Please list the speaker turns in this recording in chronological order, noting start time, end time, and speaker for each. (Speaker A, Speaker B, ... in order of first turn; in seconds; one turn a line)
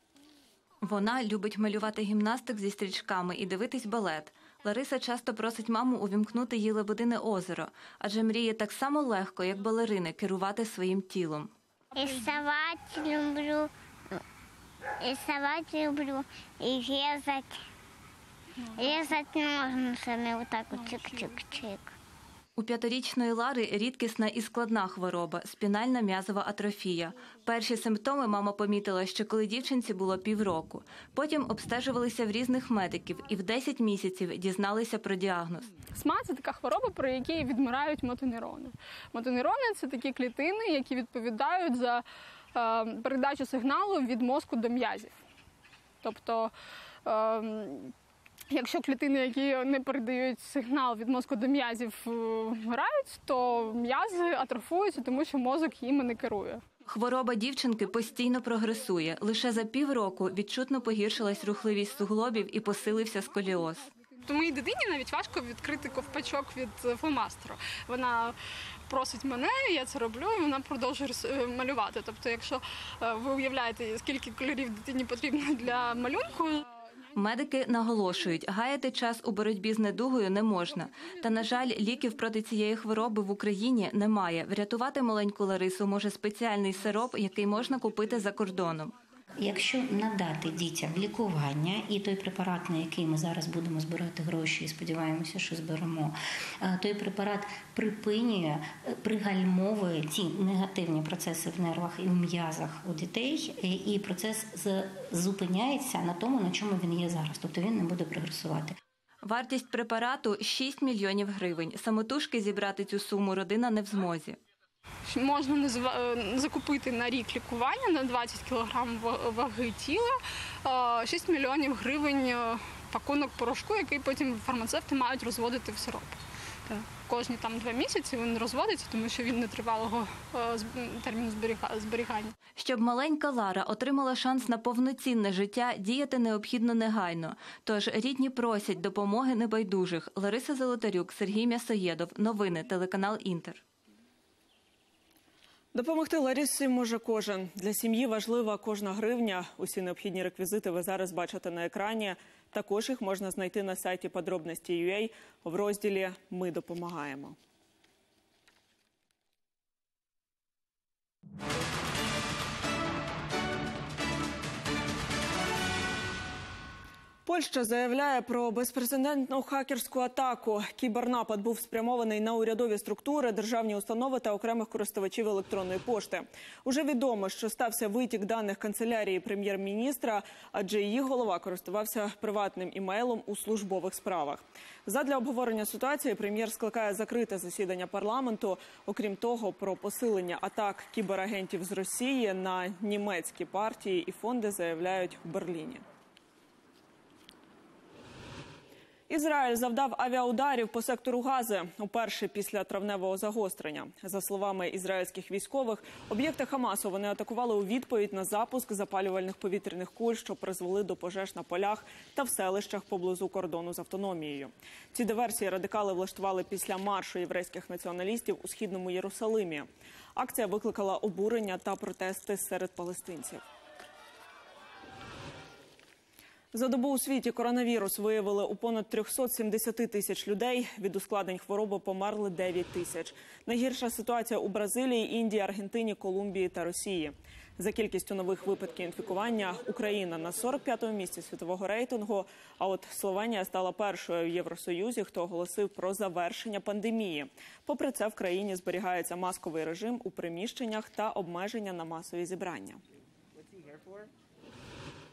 Speaker A: 0.8-11.5
Speaker B: 11.9-14.2
Speaker C: 12.0-12.3
Speaker B: 15.0-17.6
Speaker B: 18.8-21.9
Speaker C: 20.8-21.3
Speaker A: 22.6-35.6
Speaker C: 35.9-45.1
Speaker C: 46.0-46.5
Speaker C: 47.0-47.9
Speaker C: 48.5-56.6
Speaker A: 56.9-63.9
Speaker C: 64.2-68.4
Speaker C: 68.9-76.7
Speaker A: 77.1-88.9
Speaker D: 89.4-108.8
Speaker A: 109.2-114.4
Speaker C: 115.0-126.2
Speaker C: 126.7-132.3
Speaker A: 132.6-143.6
Speaker E: 145.7-157.4
Speaker E: 167.2-195.8
Speaker E: 199.1-223.4
Speaker E: 226.5-252.8